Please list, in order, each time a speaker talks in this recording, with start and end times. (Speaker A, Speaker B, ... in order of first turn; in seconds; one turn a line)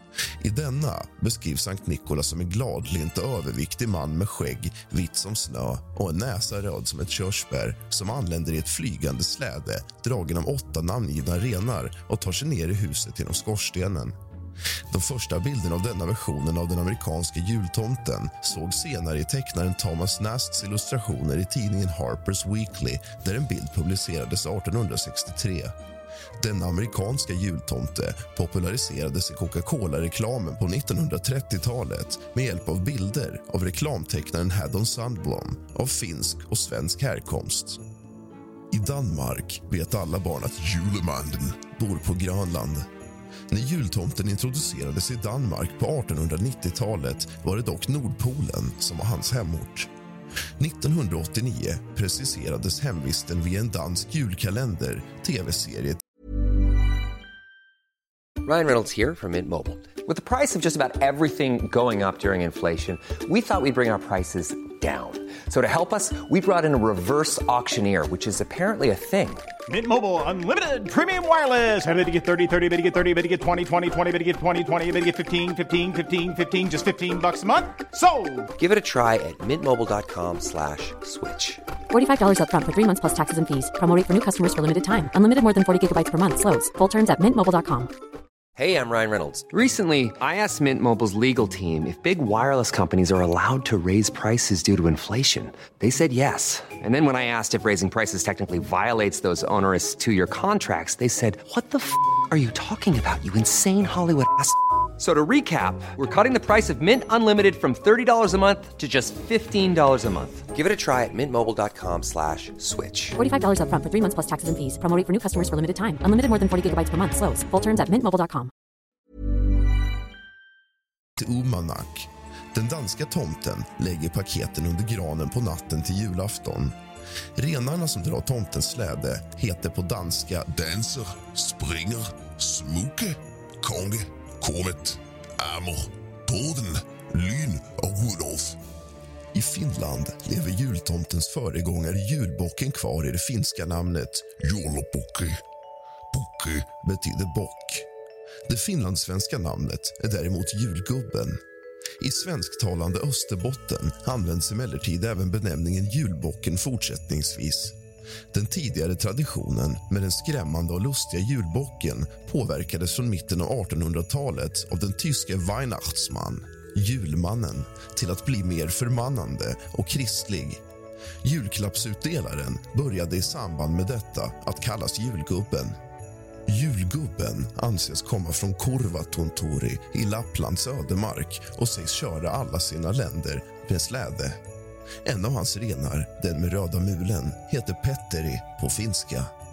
Speaker A: 0.4-14.2
Speaker A: 14.9-25.7
Speaker A: 26.4-37.8
Speaker A: 38.7-42.9
Speaker B: 41.0-41.5
Speaker A: 43.5-49.9
Speaker A: 50.6-56.0
Speaker C: 58.4-69.5
Speaker D: 69.7-78.5
Speaker C: 78.5-81.6
Speaker E: 81.9-87.9
Speaker C: 88.5-113.2
Speaker E: 113.2-118.5
Speaker A: 121.2-126.8
Speaker A: 127.3-130.5
Speaker B: 130.5-138.6
Speaker A: 139.3-144.3
Speaker B: 144.4-145.4
Speaker B: 146.1-146.7
Speaker A: 146.8-147.9
Speaker A: 148.4-151.4
Speaker A: 152.0-157.7
Speaker A: 158.3-170.6
Speaker A: 171.2-175.8
Speaker A: 176.5-184.4
Speaker A: 185.0-189.3